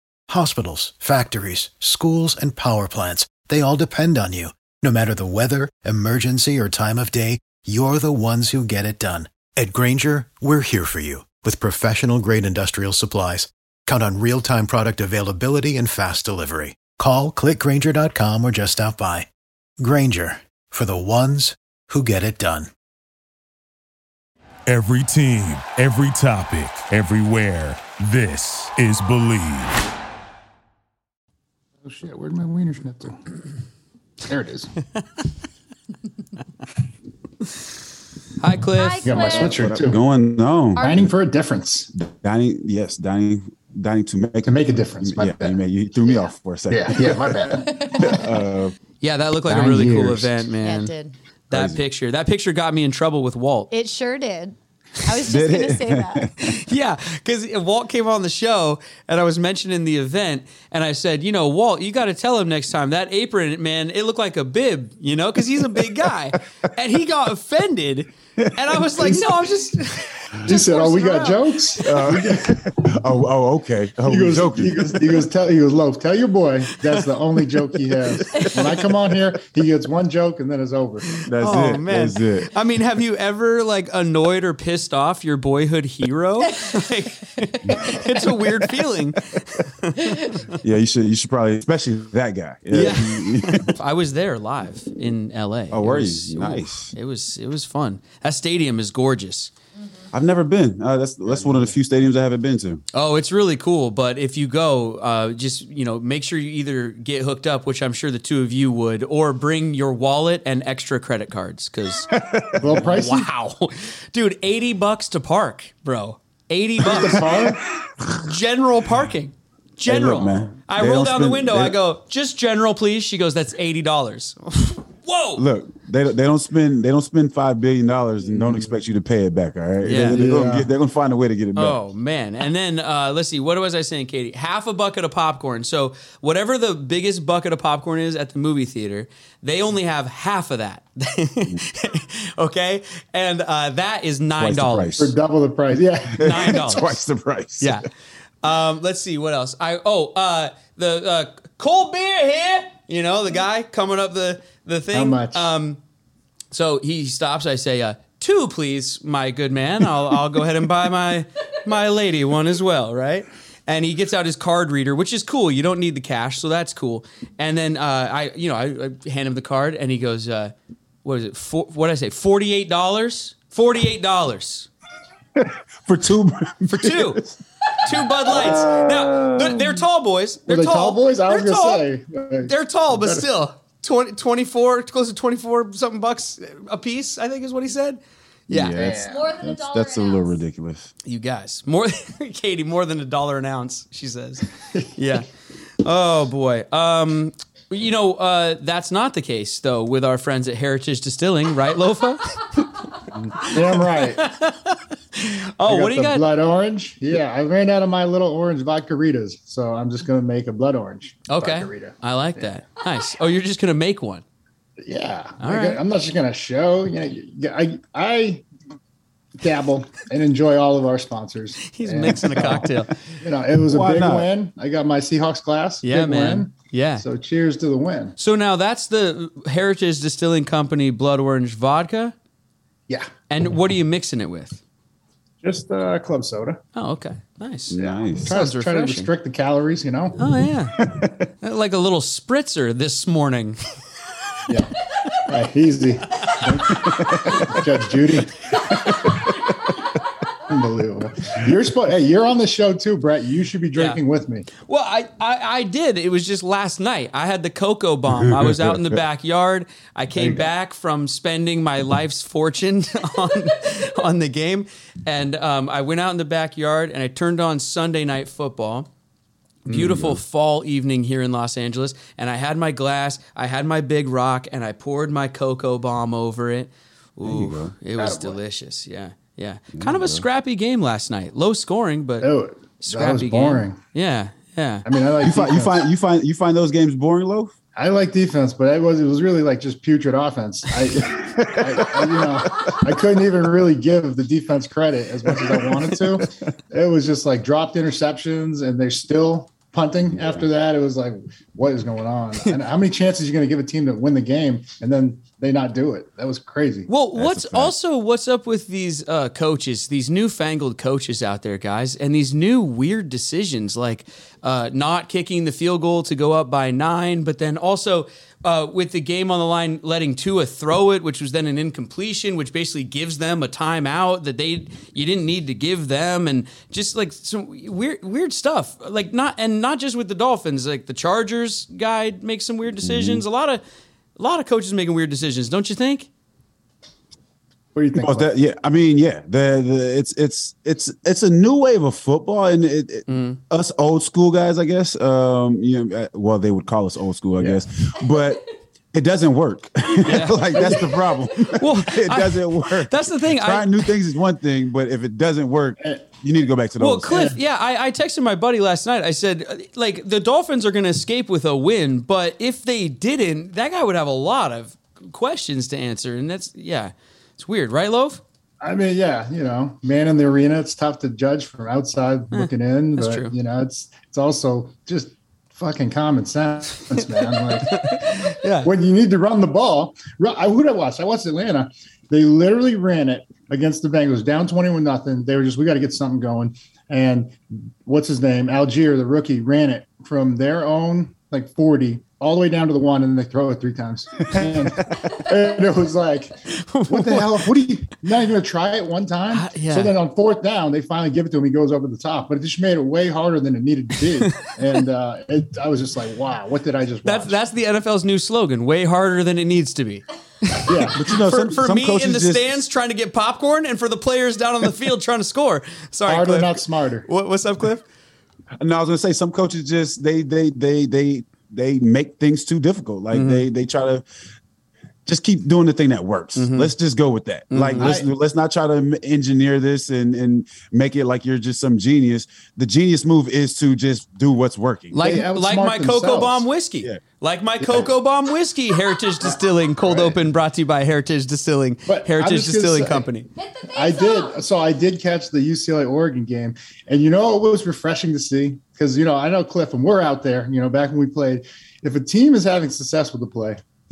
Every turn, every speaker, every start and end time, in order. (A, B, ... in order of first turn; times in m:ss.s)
0:00.3-0:19.3 A
0:19.8-0:22.7 A
0:24.7-0:29.8 B
0:31.8-0:33.2 C
0:34.3-0:34.7 C
0:38.4-0:39.4 D
0:38.7-0:39.7 E
0:39.0-0:40.0 C
0:39.4-0:41.1 F
0:40.8-0:41.9 C
0:41.9-0:48.8 F
0:44.4-0:45.6 C
0:46.7-0:48.1 C
0:47.7-0:48.2 E
0:49.0-0:50.9 D
0:49.5-0:50.3 C
0:50.6-0:51.1 E
0:51.5-0:53.7 D
0:51.5-0:51.8 F
0:53.7-0:56.4 E
0:55.2-0:56.5 F
0:56.4-1:12.0 D
1:08.4-1:08.7 F
1:10.4-1:12.7 C
1:10.6-1:11.4 E
1:11.8-1:15.1 F
1:14.1-1:21.1 C
1:18.4-1:18.7 D
1:21.2-1:22.5 F
1:21.4-1:30.6 D
1:27.6-1:28.0 F
1:30.6-1:33.7 F
1:32.7-1:39.5 D
1:35.7-1:36.9 F
1:40.1-1:42.8 F
1:41.3-1:41.7 C
1:42.9-1:52.1 D
1:52.1-1:52.8 F
1:52.6-1:53.3 C
1:52.7-1:57.5 D
1:56.8-1:57.6 C
1:57.0-1:57.5 F
1:58.1-2:05.4 D
1:59.8-2:01.8 F
2:05.4-2:11.8 F
2:08.2-2:08.8 C
2:09.8-2:10.2 D
2:10.1-2:10.7 C
2:11.5-2:25.1 D
2:24.4-2:25.1 F
2:25.0-2:26.9 C
2:26.1-2:27.8 F
2:26.2-2:26.9 D
2:27.6-2:27.9 D
2:28.4-2:35.8 D
2:34.9-2:35.5 C
2:36.5-2:50.5 D
2:51.0-2:54.7 D
2:55.4-2:57.3 F
2:56.7-3:01.8 D
2:58.2-2:59.6 F
2:58.3-2:59.3 C
3:00.5-3:03.2 C
3:02.5-3:08.8 D
3:08.5-3:10.9 F
3:08.7-3:09.5 C
3:08.9-3:10.4 E
3:11.0-3:15.3 D
3:15.8-3:22.7 D
3:23.1-3:24.2 C
3:23.4-3:26.2 D
3:25.6-3:32.5 C
3:31.3-3:34.2 D
3:34.8-3:38.4 C
3:35.4-3:35.8 D
3:39.4-3:48.1 C
3:41.7-3:43.0 D
3:43.7-3:44.3 F
3:45.8-3:47.0 D
3:48.2-3:52.1 D
3:53.3-3:54.6 D
3:55.4-3:56.6 C
3:56.7-3:59.1 D
3:57.7-3:58.3 F
3:57.8-4:00.2 C
4:00.2-4:03.6 D
4:00.8-4:01.2 F
4:04.5-4:08.6 C
4:06.8-4:07.5 F
4:10.5-4:14.5 C
4:13.7-4:14.0 D
4:14.6-4:28.9 D
4:18.1-4:19.0 F
4:20.2-4:20.5 C
4:29.6-4:42.3 D
4:29.7-4:30.2 F
4:37.2-4:37.7 F
4:38.0-4:38.4 C
4:39.7-4:40.2 F
4:42.2-4:43.8 C
4:42.8-4:44.8 D
4:44.8-4:45.8 C
4:45.2-4:47.5 F
4:47.7-5:06.9 C
4:51.2-4:52.8 F
4:55.4-4:56.3 F
5:00.2-5:00.4 F
5:06.9-5:33.6 D
5:07.1-5:07.7 F
5:32.8-5:33.2 F
5:34.2-5:36.1 D
5:37.7-5:38.3 C
5:37.9-5:57.3 F
5:43.1-5:43.4 D
5:50.0-5:54.0 D
5:50.5-5:50.9 C
5:56.8-6:08.2 D
6:08.6-6:47.4 C
6:12.3-6:13.3 D
6:17.5-6:18.7 D
6:36.5-6:37.5 D
6:39.3-6:39.9 D
6:47.0-6:57.8 D
6:50.6-6:51.1 C
6:50.9-6:52.6 F
6:56.1-6:57.0 C
6:58.6-7:04.0 F
7:03.1-7:03.4 D
7:05.0-7:15.0 F
7:06.4-7:06.7 D
7:07.5-7:07.9 D
7:07.8-7:08.1 C
7:14.9-7:23.3 D
7:15.0-7:16.4 C
7:17.6-7:17.9 F
7:19.2-7:20.2 C
7:21.9-7:23.1 C
7:23.4-7:24.4 E
7:23.7-7:33.6 C